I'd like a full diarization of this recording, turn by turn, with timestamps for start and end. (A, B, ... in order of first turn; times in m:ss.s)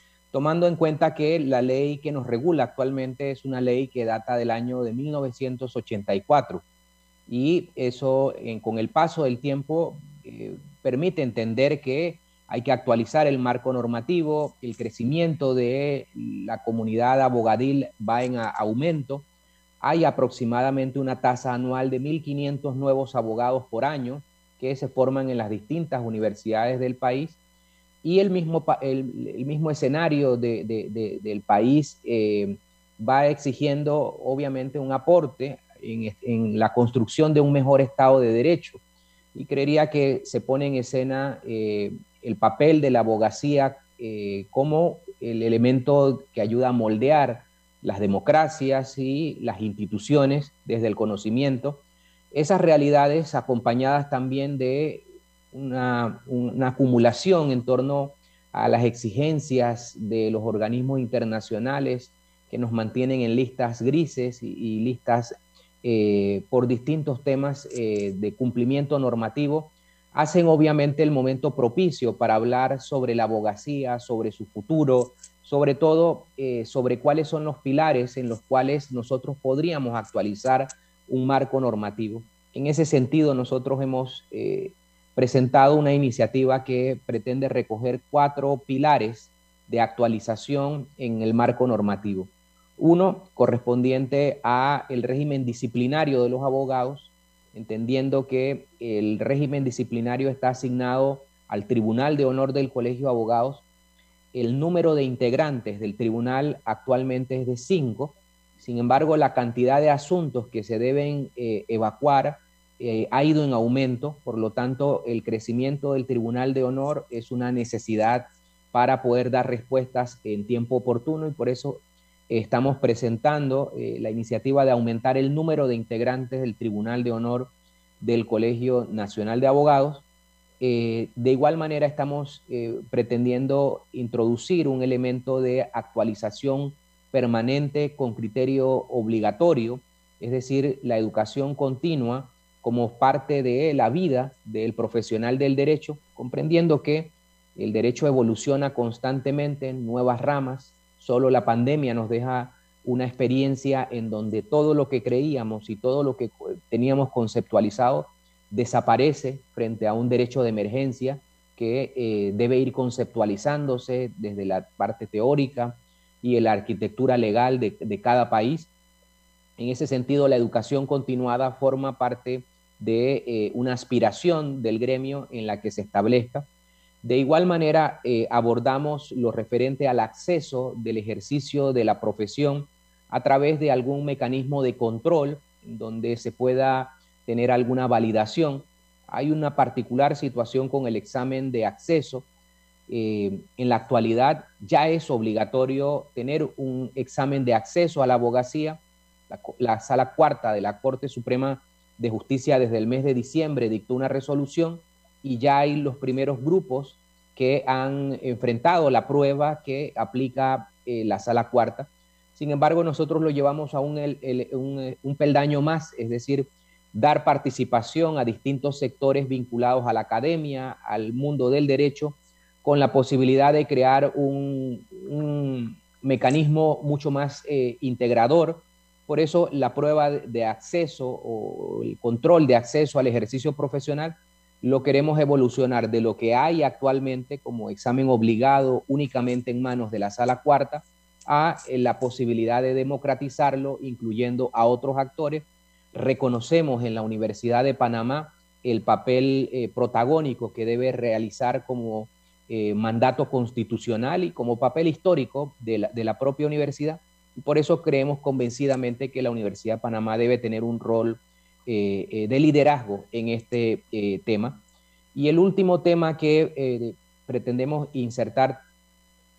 0:00.3-0:06.6 A
0:07.3-0:19.2 A
0:19.8-0:27.4 A
0:28.0-0:38.8 A
0:39.3-1:43.6 A
1:44.3-2:10.0 A
2:10.6-2:48.7 A
2:49.6-2:56.5 A
2:57.0-3:12.2 A
3:12.9-4:24.6 A
4:25.1-4:28.6 A